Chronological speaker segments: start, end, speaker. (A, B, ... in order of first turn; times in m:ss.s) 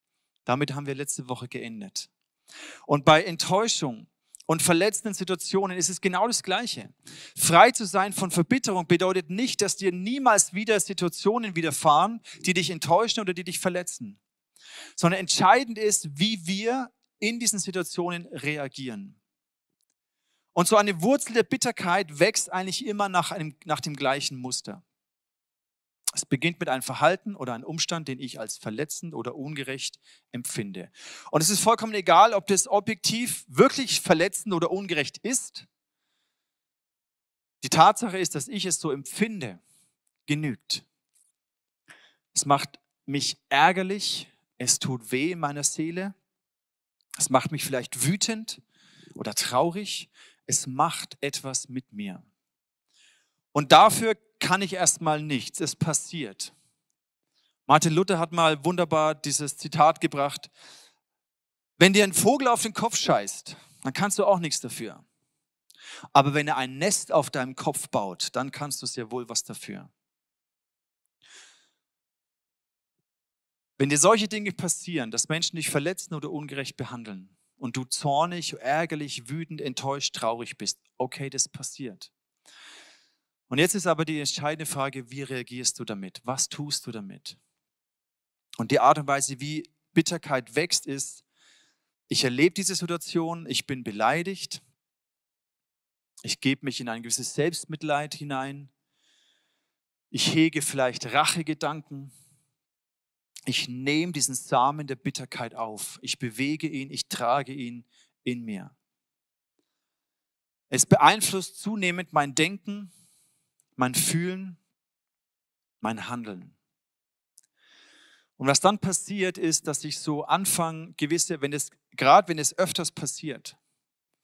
0:00.4-0:02.1 A
0:02.9-0:14.2 A
0:15.0-0:19.2 A
0:20.5-0:24.8 A
0:26.1-0:35.6 A
0:37.6-0:39.6 A
0:40.2-0:40.8 A
0:42.3-0:46.1 A
0:47.2-0:48.6 A
0:49.2-0:52.2 A
0:53.5-0:56.5 A
0:57.7-1:00.5 A
1:01.8-1:05.0 A
1:06.1-1:09.9 A
1:13.8-1:22.1 A
1:23.5-1:27.4 A
1:28.6-1:31.2 A
1:32.1-1:34.6 A
1:36.2-1:38.7 A
1:40.1-1:42.1 A
1:43.5-1:48.7 A
1:50.7-1:52.9 A
1:53.8-1:54.6 A
1:55.8-1:56.5 A
1:58.4-2:03.6 A